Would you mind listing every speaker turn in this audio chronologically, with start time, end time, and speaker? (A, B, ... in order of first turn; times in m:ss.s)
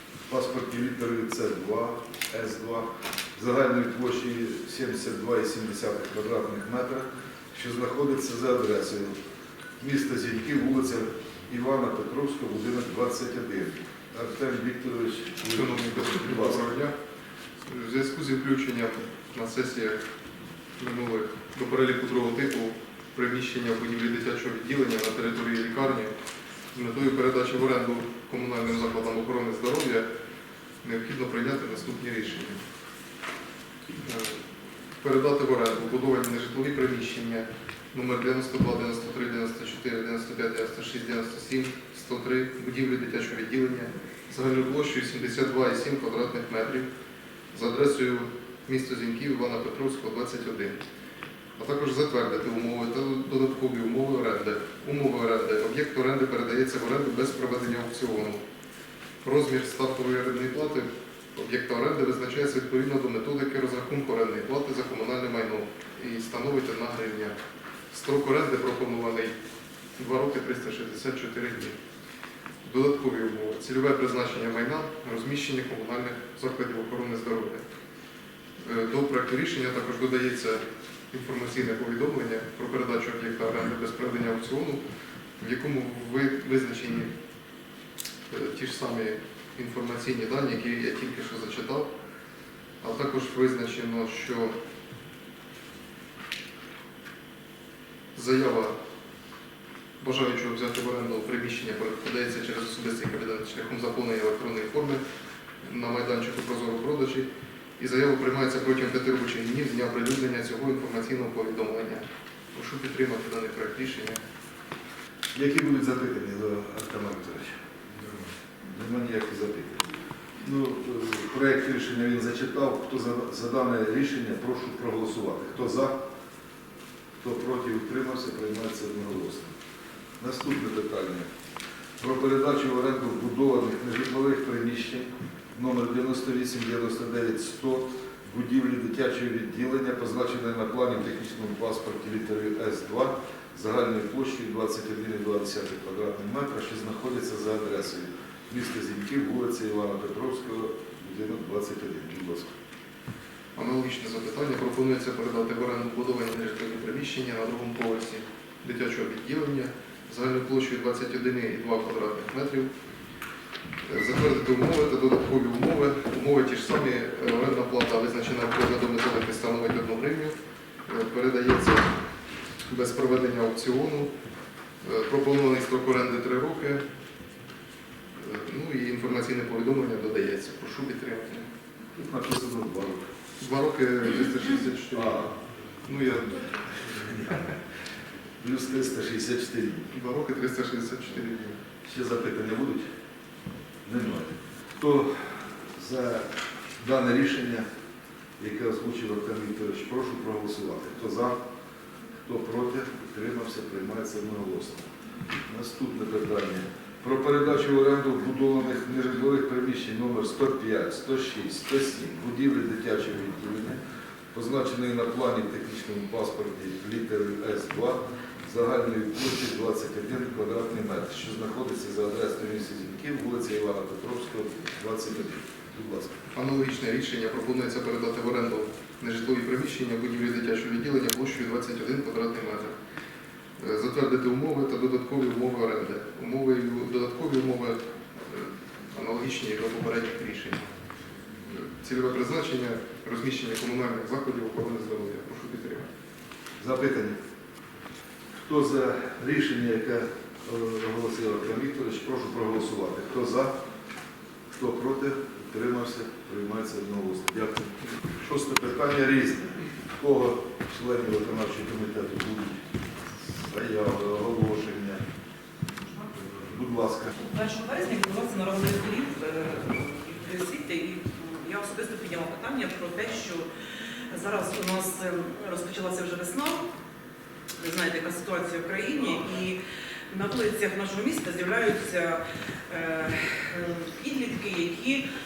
0:00.3-0:09.1 A
0:09.8-0:16.7 A
0:15.5-0:16.9 B
0:17.7-0:20.0 B
0:20.8-0:26.1 B
0:26.7-0:30.1 B
0:30.8-0:32.6 B
0:34.0-0:34.4 B
0:35.0-0:46.9 B
0:47.5-0:50.8 B
0:51.6-0:58.4 B
0:59.2-1:07.3 B
1:07.9-1:09.3 B
1:10.0-1:11.8 B
1:12.6-1:17.6 B
1:18.6-1:24.8 B
1:25.4-1:27.1 B
1:28.3-1:31.9 B
1:32.8-1:34.5 B
1:38.2-1:38.8 B
1:40.0-1:45.0 B
1:45.6-1:47.3 B
1:47.8-1:54.2 B
1:55.3-1:57.6 A
1:58.7-1:59.9 A
2:00.4-2:06.0 A
2:07.2-2:09.5 A
2:10.2-2:11.3 A
2:12.0-2:32.5 A
2:33.5-2:42.7 B
2:43.8-2:50.3 B
2:50.9-2:51.9 B
2:52.7-2:54.1 B
2:54.8-2:56.8 B
2:58.2-3:01.5 B
3:02.0-3:03.1 A
3:03.4-3:05.3 B
3:04.9-3:05.3 A
3:05.8-3:07.4 B
3:06.8-3:07.5 A
3:08.4-3:09.9 A
3:09.9-3:11.6 B
3:11.8-3:12.9 A
3:13.8-3:17.6 A
3:18.4-3:21.4 A
3:22.2-3:24.9 A
3:25.5-3:33.8 A
3:34.3-3:46.2 A
3:46.3-3:52.7 B
3:53.6-4:00.6 B
4:01.5-4:05.9 B
4:06.6-4:07.2 A
4:08.4-4:13.5 A
4:14.5-4:22.6 A
4:23.2-4:25.0 A
4:26.4-4:27.1 A
4:27.1-4:33.5 C
4:34.1-4:36.6 C
4:37.6-4:39.6 C
4:40.1-4:45.0 C